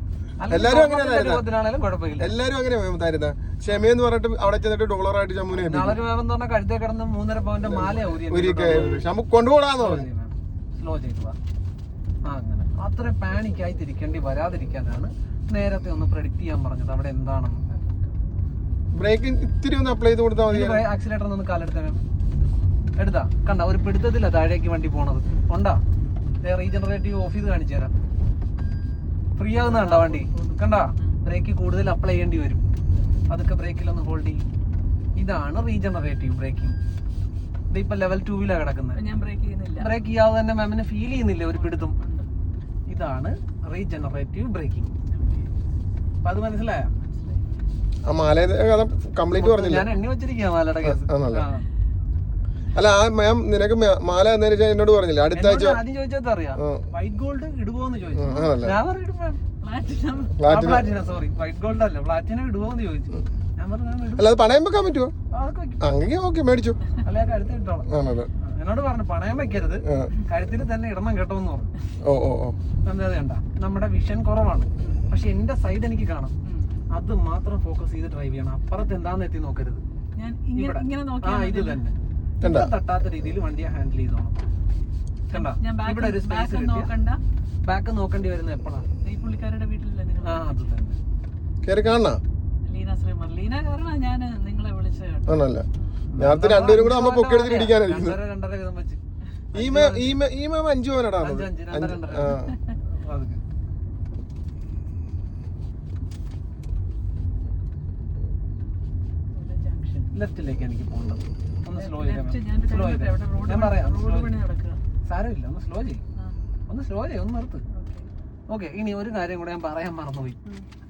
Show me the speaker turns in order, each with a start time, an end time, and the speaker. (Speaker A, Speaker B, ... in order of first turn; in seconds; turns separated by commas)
Speaker A: 0.4-2.3, Speaker B: 0.5-1.5, Speaker B: 2.1-6.0, Speaker A: 5.5-9.0, Speaker B: 7.6-10.1, Speaker A: 9.7-11.4, Speaker A: 12.2-17.6, Speaker C: 17.7-18.2, Speaker B: 18.9-20.8, Speaker A: 20.5-22.0, Speaker A: 23.0-25.8, Speaker C: 25.2-26.2, Speaker A: 26.4-27.9, Speaker A: 29.4-32.6, Speaker C: 29.6-31.2, Speaker A: 33.3-34.4, Speaker A: 35.2-36.8, Speaker A: 37.7-39.0, Speaker C: 38.9-40.0, Speaker A: 39.8-41.9, Speaker C: 41.5-42.3, Speaker A: 42.9-44.9, Speaker C: 45.1-45.5, Speaker A: 46.2-46.9, Speaker C: 47.0-47.6, Speaker B: 48.0-50.0, Speaker A: 49.3-51.6, Speaker B: 50.8-51.5, Speaker B: 52.7-55.8, Speaker A: 55.3-59.4, Speaker B: 56.5-56.9, Speaker B: 58.1-58.8, Speaker C: 58.3-58.5, Speaker C: 59.6-60.4, Speaker B: 60.4-60.9, Speaker A: 60.4-64.3, Speaker B: 64.2-65.1, Speaker A: 65.3-66.0, Speaker B: 65.8-66.8, Speaker A: 67.0-71.7, Speaker B: 67.9-68.3, Speaker B: 69.8-70.1, Speaker B: 72.0-72.6, Speaker A: 72.8-76.3, Speaker C: 76.4-76.8, Speaker A: 76.9-79.8, Speaker C: 80.2-81.8, Speaker A: 80.5-84.4, Speaker B: 82.4-82.7, Speaker A: 85.3-86.9, Speaker C: 85.3-87.2, Speaker A: 87.6-88.8, Speaker C: 89.0-90.6, Speaker A: 90.2-91.0, Speaker B: 91.6-92.2, Speaker C: 92.6-95.5, Speaker B: 95.3-95.6, Speaker A: 96.1-99.0, Speaker B: 96.2-98.2, Speaker A: 99.5-100.2, Speaker B: 99.5-102.6, Speaker A: 101.2-103.4, Speaker C: 102.3-102.8, Speaker C: 109.3-110.1, Speaker A: 110.1-114.3, Speaker C: 111.7-114.8, Speaker A: 115.0-116.0, Speaker C: 116.2-116.4, Speaker A: 116.7-117.6, Speaker C: 117.7-118.1, Speaker A: 118.5-120.4